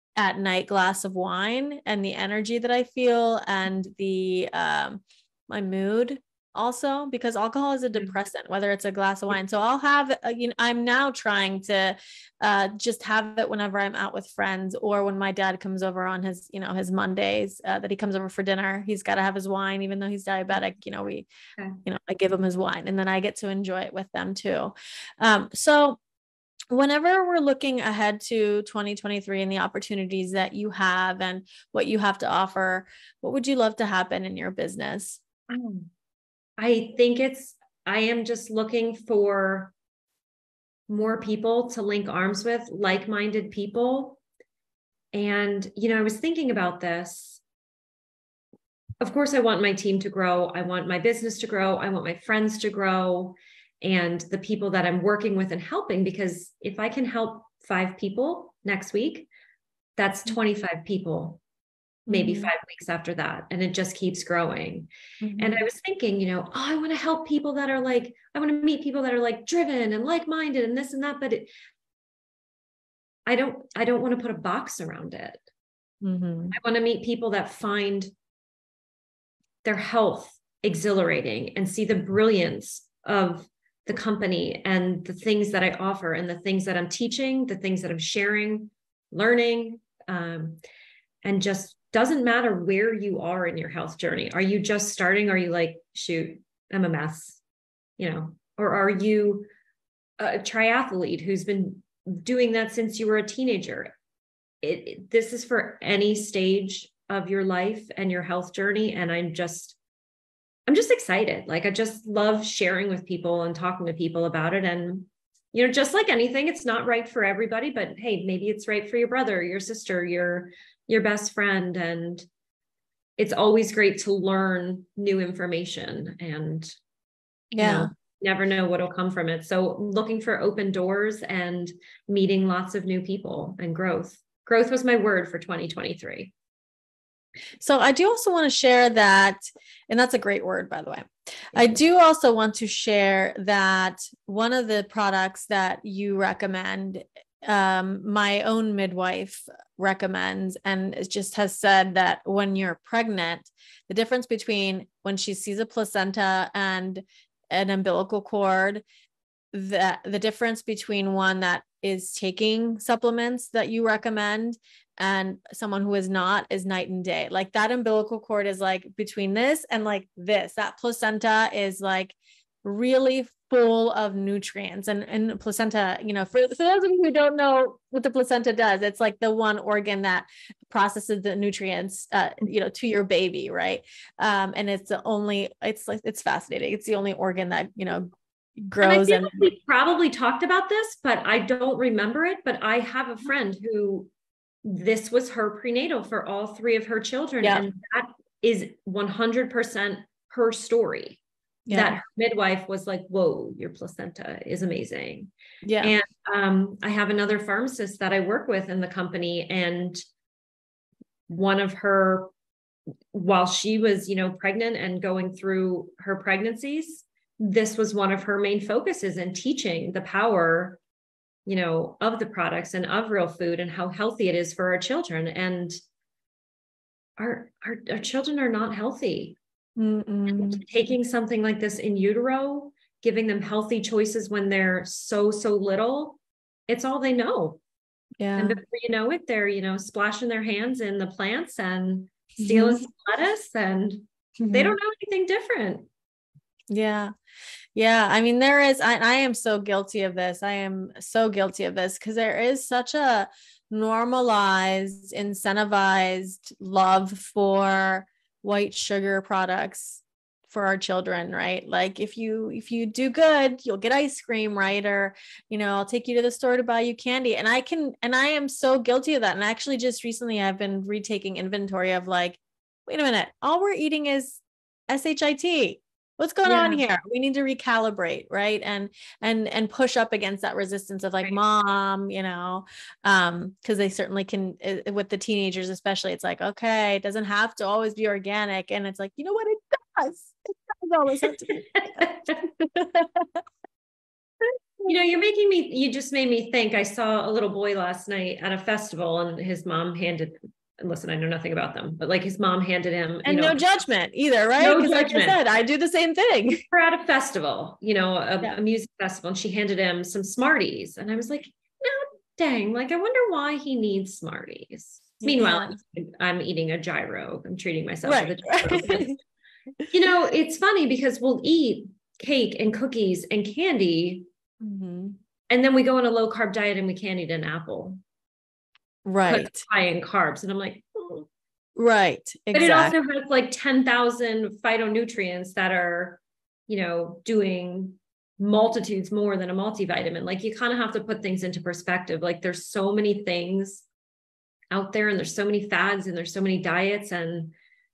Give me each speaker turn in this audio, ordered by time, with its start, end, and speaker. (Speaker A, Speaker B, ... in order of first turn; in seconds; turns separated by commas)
Speaker A: 0.2-21.3, Speaker A: 21.8-26.0, Speaker A: 26.7-35.2, Speaker B: 35.5-35.9, Speaker B: 36.6-39.7, Speaker B: 40.9-44.2, Speaker B: 45.1-47.4, Speaker B: 49.0-59.3, Speaker B: 60.0-61.4, Speaker B: 62.1-71.5, Speaker A: 62.1-62.5, Speaker A: 65.2-65.6, Speaker B: 73.3-75.4, Speaker A: 76.0-76.6, Speaker B: 76.5-78.1, Speaker B: 79.6-90.6, Speaker B: 91.2-97.4, Speaker B: 98.0-99.5, Speaker B: 100.2-103.9, Speaker B: 104.6-109.8, Speaker B: 110.7-122.3, Speaker B: 123.2-126.8, Speaker A: 127.5-127.9, Speaker B: 127.6-136.3, Speaker A: 137.6-158.8, Speaker A: 159.5-189.4, Speaker B: 188.8-194.1, Speaker B: 194.6-205.3, Speaker A: 201.7-202.0, Speaker A: 205.7-205.9, Speaker B: 205.8-210.0, Speaker B: 211.3-212.3, Speaker B: 213.1-220.8, Speaker B: 221.5-225.8, Speaker B: 227.2-229.4, Speaker A: 229.8-230.6, Speaker B: 230.3-237.6, Speaker A: 238.2-238.6, Speaker B: 238.4-245.9, Speaker A: 242.4-242.8, Speaker A: 244.4-244.8, Speaker A: 246.7-247.1, Speaker A: 247.8-293.4, Speaker B: 276.4-276.8, Speaker B: 292.0-292.4, Speaker B: 294.9-303.6, Speaker A: 303.2-306.6, Speaker B: 304.6-305.4, Speaker B: 306.6-319.2, Speaker A: 315.2-315.8, Speaker A: 318.0-319.2, Speaker B: 319.9-324.3, Speaker A: 324.6-325.2, Speaker B: 325.5-328.0, Speaker A: 329.1-329.6, Speaker B: 329.3-331.3, Speaker A: 331.8-332.9, Speaker B: 332.5-343.9, Speaker B: 344.7-347.5